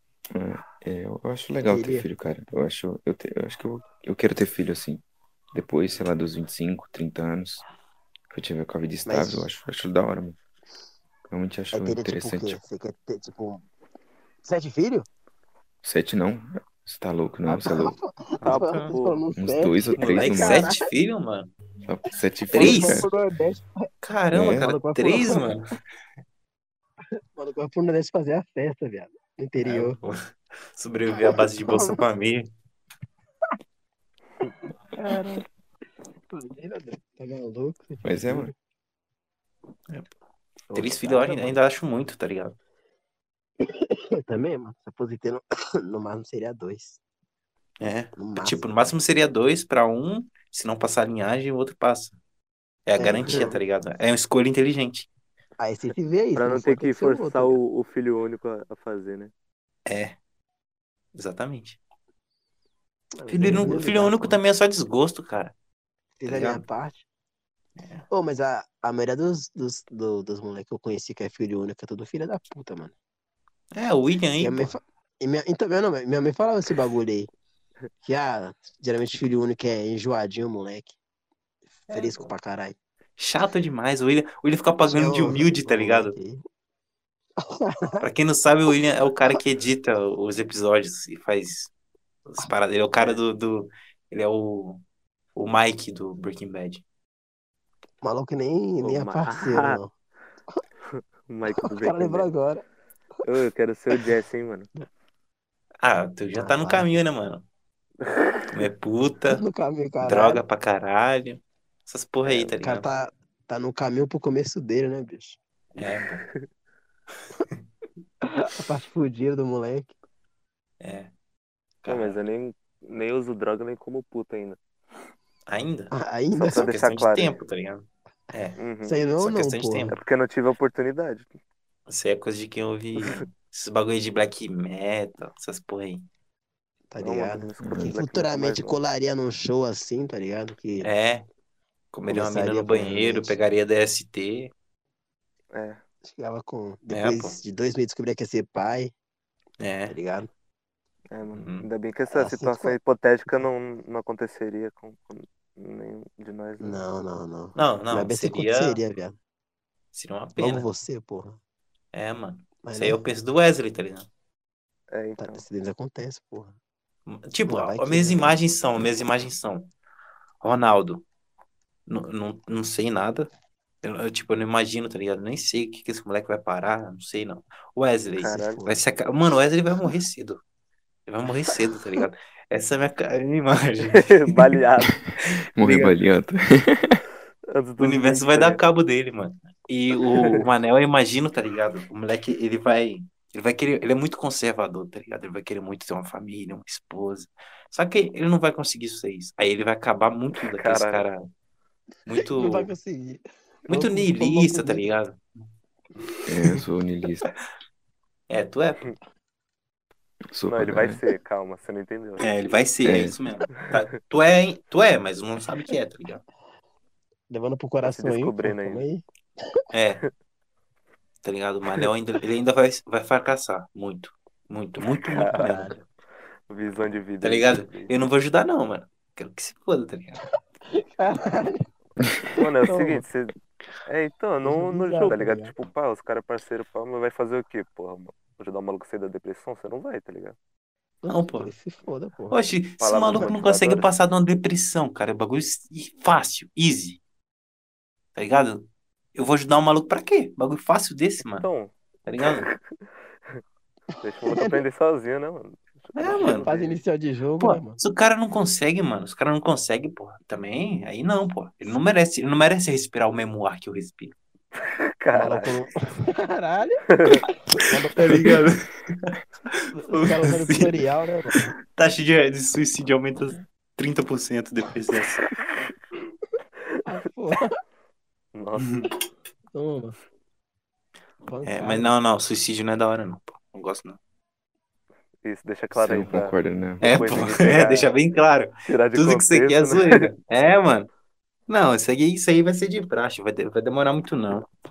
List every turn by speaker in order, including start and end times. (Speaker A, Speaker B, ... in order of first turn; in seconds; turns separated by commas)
Speaker A: 0.3-5.0, Speaker B: 1.6-2.0, Speaker A: 5.5-7.6, Speaker A: 8.3-10.4, Speaker B: 9.1-9.5, Speaker A: 11.3-12.6, Speaker B: 11.7-13.7, Speaker B: 14.4-15.1, Speaker A: 15.8-17.9, Speaker B: 17.5-20.9, Speaker C: 18.4-18.9, Speaker D: 18.4-19.2, Speaker A: 19.4-20.7, Speaker C: 20.0-21.5, Speaker A: 21.9-23.1, Speaker C: 22.5-23.1, Speaker B: 22.5-23.9, Speaker C: 24.0-25.7, Speaker A: 24.3-24.7, Speaker B: 24.5-25.4, Speaker B: 27.3-30.0, Speaker C: 29.6-32.5, Speaker B: 31.2-32.0, Speaker C: 35.0-35.4, Speaker B: 35.0-35.4, Speaker B: 36.3-38.5, Speaker A: 38.0-38.5, Speaker B: 40.7-41.6, Speaker C: 40.7-42.6, Speaker B: 43.6-47.0, Speaker C: 47.8-52.2, Speaker B: 48.1-48.6, Speaker C: 52.9-55.1, Speaker B: 53.0-53.6, Speaker B: 55.6-57.6, Speaker D: 56.4-59.3, Speaker C: 59.9-60.2, Speaker C: 61.1-61.8, Speaker B: 63.2-64.4, Speaker C: 63.3-65.5, Speaker B: 66.2-67.0, Speaker C: 66.3-66.6, Speaker C: 67.8-68.1, Speaker B: 68.1-72.9, Speaker C: 73.7-74.7, Speaker B: 74.4-77.3, Speaker B: 78.0-81.0, Speaker C: 81.9-82.3, Speaker B: 81.9-82.8, Speaker C: 83.2-86.1, Speaker B: 84.8-86.4, Speaker B: 87.4-88.0, Speaker C: 88.0-91.7, Speaker C: 92.2-94.8, Speaker C: 95.3-96.8, Speaker B: 98.0-99.9, Speaker D: 98.8-99.8, Speaker D: 101.3-102.3, Speaker B: 101.5-102.6, Speaker D: 103.2-104.7, Speaker C: 105.8-107.4, Speaker B: 106.3-106.9, Speaker C: 108.5-109.4, Speaker B: 109.3-110.4, Speaker C: 110.0-112.9, Speaker D: 112.2-112.5, Speaker B: 112.6-115.4, Speaker C: 115.7-116.2, Speaker B: 118.2-119.9, Speaker C: 120.8-121.1, Speaker C: 121.8-122.2, Speaker D: 121.9-124.6, Speaker C: 125.5-128.6, Speaker B: 125.9-126.7, Speaker D: 126.4-127.4, Speaker D: 128.6-129.0, Speaker B: 128.8-129.9, Speaker C: 129.2-130.0, Speaker D: 129.9-131.3, Speaker C: 131.9-136.1, Speaker B: 136.9-140.9, Speaker D: 137.0-138.8, Speaker A: 137.6-137.9, Speaker C: 140.8-141.3, Speaker C: 141.9-144.5, Speaker B: 142.1-143.4, Speaker D: 145.5-145.8, Speaker B: 146.0-148.9, Speaker C: 146.9-147.4, Speaker C: 149.6-149.9, Speaker B: 149.9-150.3, Speaker D: 151.1-156.8, Speaker C: 151.3-151.7, Speaker B: 152.1-152.8, Speaker B: 156.6-159.2, Speaker C: 157.5-158.8, Speaker C: 159.9-160.7, Speaker B: 160.4-161.4, Speaker C: 161.9-164.1, Speaker B: 162.6-163.0, Speaker D: 164.9-165.4, Speaker B: 165.2-166.5, Speaker C: 167.1-169.7, Speaker B: 167.5-168.4, Speaker C: 170.4-171.1, Speaker C: 171.9-173.3, Speaker C: 173.8-180.4, Speaker D: 178.2-178.6, Speaker B: 178.5-178.8, Speaker C: 181.1-184.1, Speaker D: 183.9-185.9, Speaker A: 185.6-187.0, Speaker D: 187.5-188.6, Speaker C: 187.8-201.3, Speaker D: 190.2-190.4, Speaker D: 200.5-201.1, Speaker C: 202.1-202.7, Speaker B: 202.1-204.9, Speaker C: 203.7-205.2, Speaker A: 206.3-207.3, Speaker C: 208.3-208.9, Speaker A: 210.3-211.0, Speaker D: 210.5-212.3, Speaker C: 212.2-216.2, Speaker A: 212.8-213.2, Speaker B: 217.3-219.0, Speaker D: 217.8-218.8, Speaker C: 219.7-220.0, Speaker C: 221.2-225.8, Speaker D: 225.0-225.7, Speaker D: 226.5-227.9, Speaker C: 227.2-230.2, Speaker B: 230.7-231.6, Speaker D: 232.3-240.3, Speaker B: 232.6-233.0, Speaker B: 234.4-235.5, Speaker B: 241.0-242.4, Speaker C: 241.1-241.5, Speaker C: 242.3-247.0, Speaker D: 242.8-243.9, Speaker C: 248.1-251.5, Speaker D: 251.3-252.6, Speaker C: 252.1-252.5, Speaker D: 254.0-256.8, Speaker B: 254.2-254.6, Speaker C: 255.9-256.5, Speaker B: 256.1-257.8, Speaker C: 257.4-264.1, Speaker D: 264.7-265.5, Speaker B: 265.1-268.4, Speaker D: 266.9-267.2, Speaker C: 267.6-270.8, Speaker B: 269.9-271.5, Speaker C: 271.3-275.2, Speaker B: 276.8-277.5, Speaker D: 278.3-278.9, Speaker C: 278.6-278.9, Speaker B: 279.5-280.0, Speaker B: 281.3-281.9, Speaker C: 281.4-284.0, Speaker D: 285.2-287.9, Speaker A: 285.7-286.9, Speaker C: 286.8-290.9, Speaker D: 288.6-290.1, Speaker C: 291.5-294.5